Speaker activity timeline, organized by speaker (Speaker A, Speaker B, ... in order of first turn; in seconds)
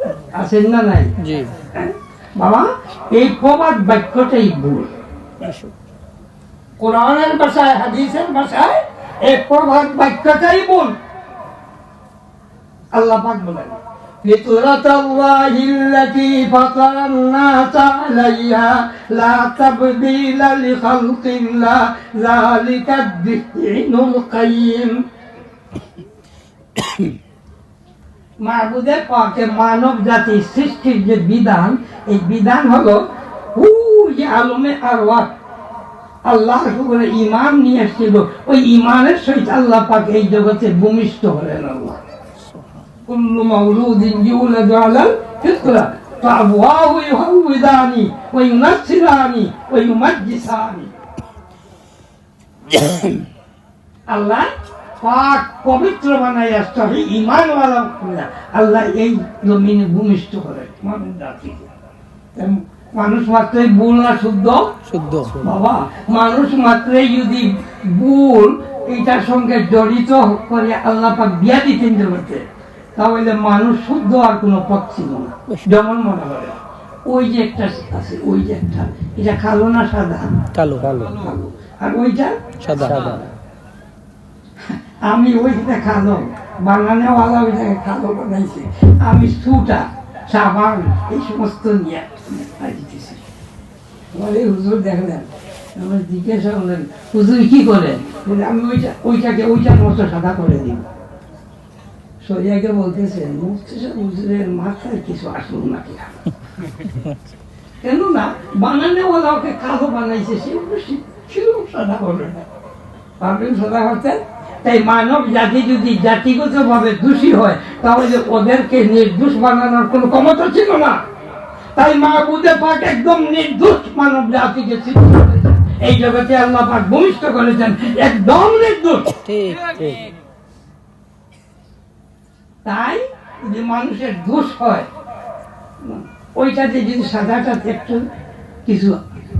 Speaker A: 0.2-1.1, 1.7-4.9, 6.8-10.9, 12.9-25.0, 28.4-35.3, 36.2-42.0, 43.0-50.9, 54.1-61.7, 62.3-64.8, 65.4-72.4, 73.0-80.4, 80.9-82.4, 84.7-93.2, 94.1-100.9, 102.2-106.2, 107.8-112.5, 113.2-121.0, 121.7-129.2, 132.6-134.9, 135.8-138.1, 138.7-139.0
Speaker B: 1.2-1.5, 5.4-5.7, 64.8-65.4, 80.5-81.2, 82.6-83.3, 129.2-130.0